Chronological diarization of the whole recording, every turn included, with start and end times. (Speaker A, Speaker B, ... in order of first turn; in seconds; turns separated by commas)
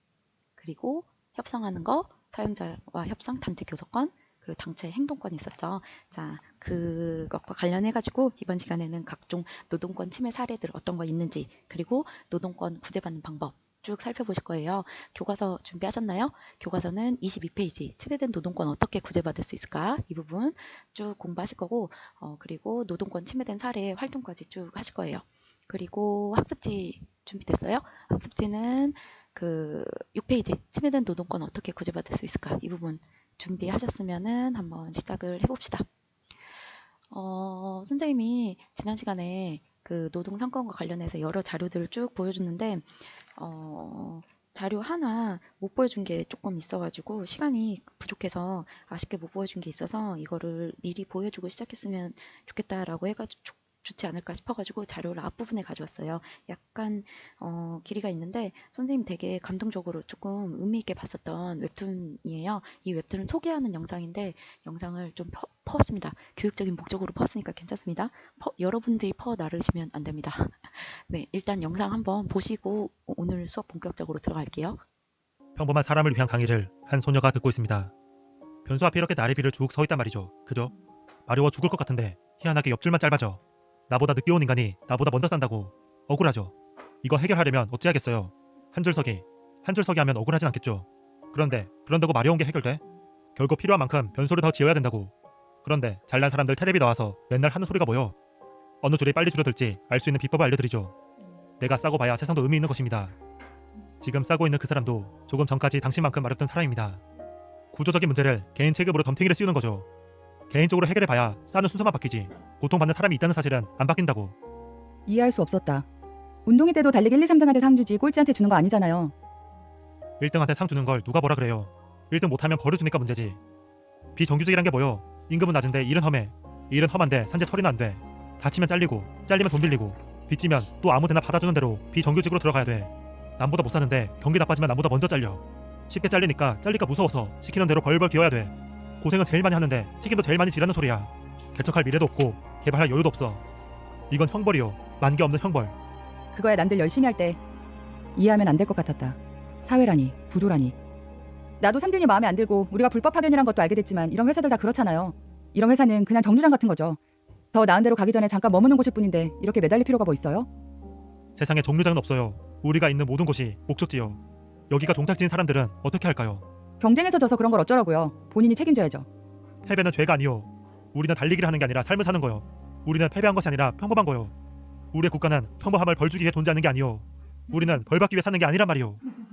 Speaker A: 0.6-35.9, Speaker A: 37.1-74.8, Speaker B: 75.6-77.9, Speaker B: 78.7-80.7, Speaker B: 81.3-92.8, Speaker B: 93.4-95.1, Speaker B: 95.6-98.1, Speaker B: 98.8-100.9, Speaker B: 101.6-103.2, Speaker B: 104.0-107.0, Speaker B: 107.7-109.9, Speaker B: 110.5-114.3, Speaker C: 115.1-115.9, Speaker C: 116.5-119.1, Speaker B: 120.2-123.4, Speaker B: 124.2-143.4, Speaker B: 144.1-145.7, Speaker C: 146.3-147.4, Speaker C: 148.2-150.8, Speaker C: 151.6-157.0, Speaker C: 157.5-160.5, Speaker B: 161.4-166.4, Speaker C: 166.8-169.1, Speaker B: 169.7-174.3, Speaker B: 174.9-179.0